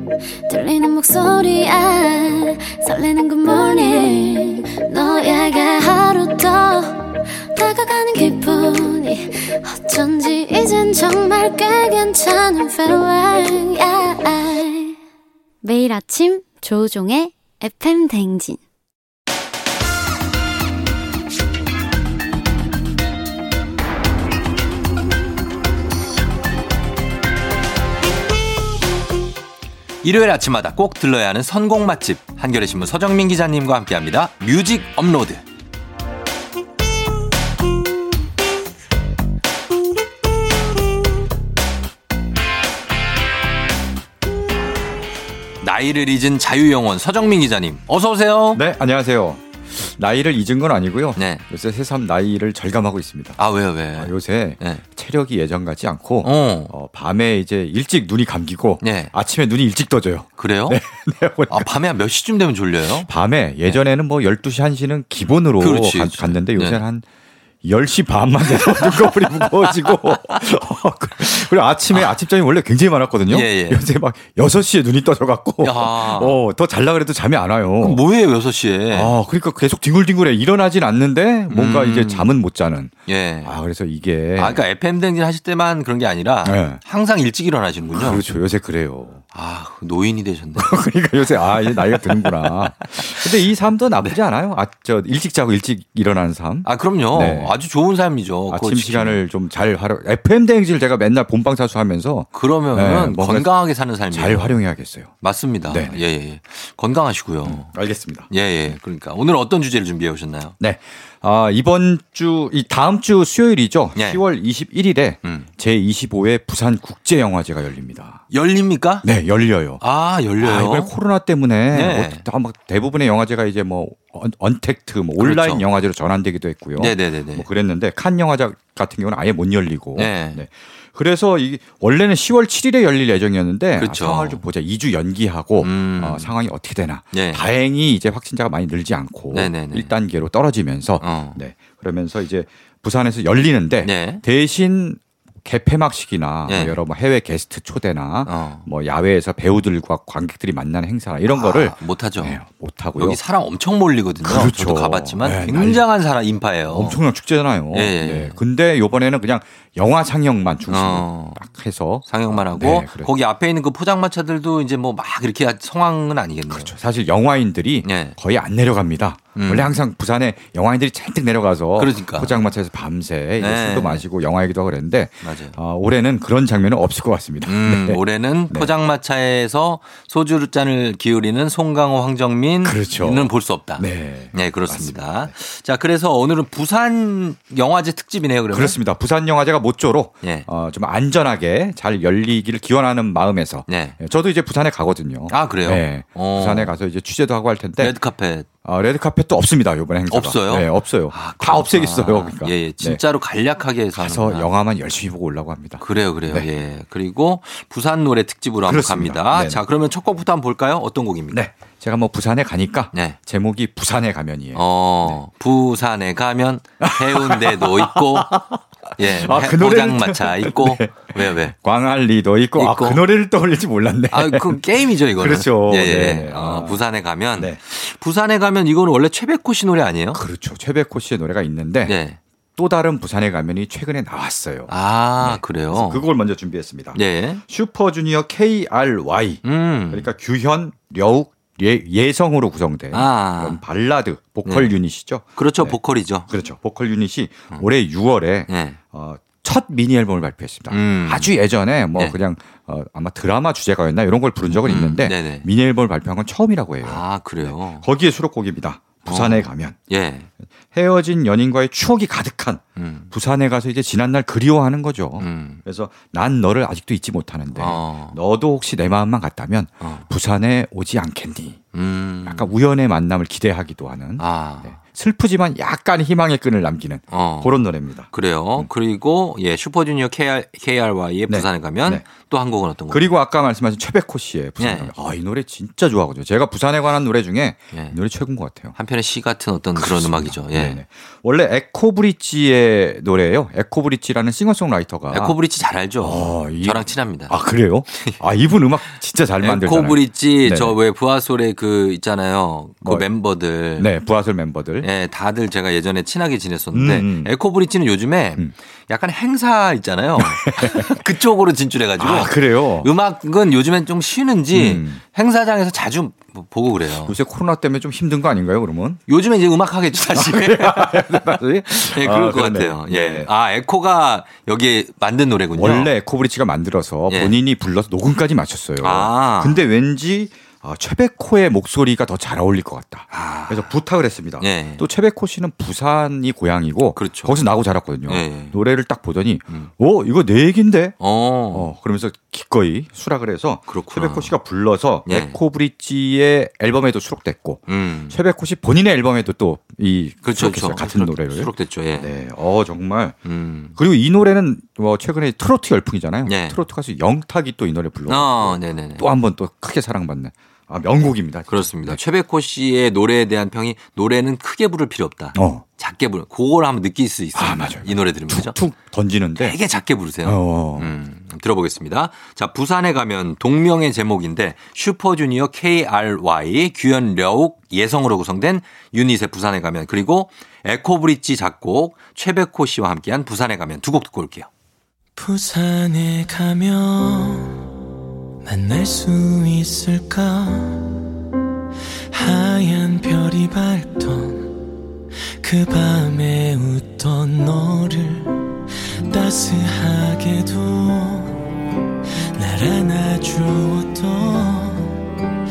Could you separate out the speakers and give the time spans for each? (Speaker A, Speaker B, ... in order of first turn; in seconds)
Speaker A: 0.5-15.0, 15.6-18.6
Speaker B: 30.0-35.4, 45.6-48.6, 51.2-51.5, 53.4-54.8, 56.2-56.7, 58.8-59.1, 60.4-60.8, 61.5-63.1, 65.6-66.8, 68.5-70.4, 71.9-72.2, 73.3-73.8, 75.6-76.4, 77.8-79.2, 81.5-82.3, 83.1-83.5, 84.4-88.2, 89.3-90.8, 91.4-93.3, 96.7-99.2, 102.3-104.6, 105.2-107.7, 108.3-110.6, 114.0-114.2, 118.3-119.1, 119.8-120.9, 121.7-122.2, 125.2-125.7, 126.8-127.5, 130.0-130.4, 133.8-134.4, 135.6-136.3, 137.1-137.5, 139.3-139.9, 141.0-141.4, 143.8-144.2, 146.5-146.8, 148.3-148.7, 151.3-152.4, 153.0-157.0, 157.7-158.4, 160.7-161.4, 162.1-166.7, 167.8-168.2, 169.3-169.7, 171.8-172.4, 173.4-174.1, 175.2-175.6, 177.5-188.8, 190.2-190.5, 193.7-194.0, 195.3-196.8, 197.8-198.5, 200.1-204.5, 205.8-211.5, 214.6-218.4, 219.0-221.6, 222.6-223.0, 224.1-230.2, 231.9-232.2, 234.7-236.1, 236.9-237.4, 239.4-240.1, 242.9-243.6, 244.4-244.7, 245.4-246.3, 248.5-248.8, 250.7-251.4, 254.5-255.5, 256.8-257.9, 259.1-260.3, 262.8-263.1, 265.2-265.6, 267.6-268.2, 271.7-272.5, 274.2-274.8, 277.1-277.6, 278.1-283.1, 284.6-284.9, 287.7-288.0, 288.8-290.8, 295.1-297.4, 299.4-303.9, 304.8-317.1, 319.1-325.9, 327.1-327.4, 328.8-329.6, 333.1-333.8, 334.4-334.9, 336.9-337.4, 338.1-338.6, 341.0-341.7, 343.7-344.3, 345.1-345.4, 347.7-348.2, 350.2-352.1, 353.2-353.8, 356.3-356.6, 358.1-359.1, 361.5-368.6, 369.4-384.5
Speaker C: 48.5-53.4, 53.9-61.7, 63.1-67.0, 67.6-78.0, 78.9-82.9, 83.4-84.6, 86.4-86.8, 87.9-89.2, 90.6-97.6, 98.5-106.0, 107.5-108.3, 110.6-118.2, 119.0-119.8, 120.4-153.2, 154.2-155.8, 156.7-163.1, 166.5-178.7, 182.6-185.3, 188.5-198.0, 198.6-203.0, 203.9-206.5, 208.7-209.6, 211.3-215.2, 216.8-226.8, 230.1-232.0, 232.6-259.8, 260.7-271.6, 272.2-278.7, 281.3-282.1, 282.9-288.8, 289.8-295.4, 296.0-300.8, 303.8-304.9, 306.7-307.3, 310.2-311.1, 312.0-312.9, 314.5-315.0, 317.0-319.0, 320.0-323.3, 325.6-341.0, 341.5-353.2, 353.8-362.0, 365.3-365.6, 367.4-369.6, 370.2-370.9
Speaker D: 385.2-387.7, 388.4-391.0, 392.1-394.6, 395.4-398.5, 399.1-401.4, 402.4-405.0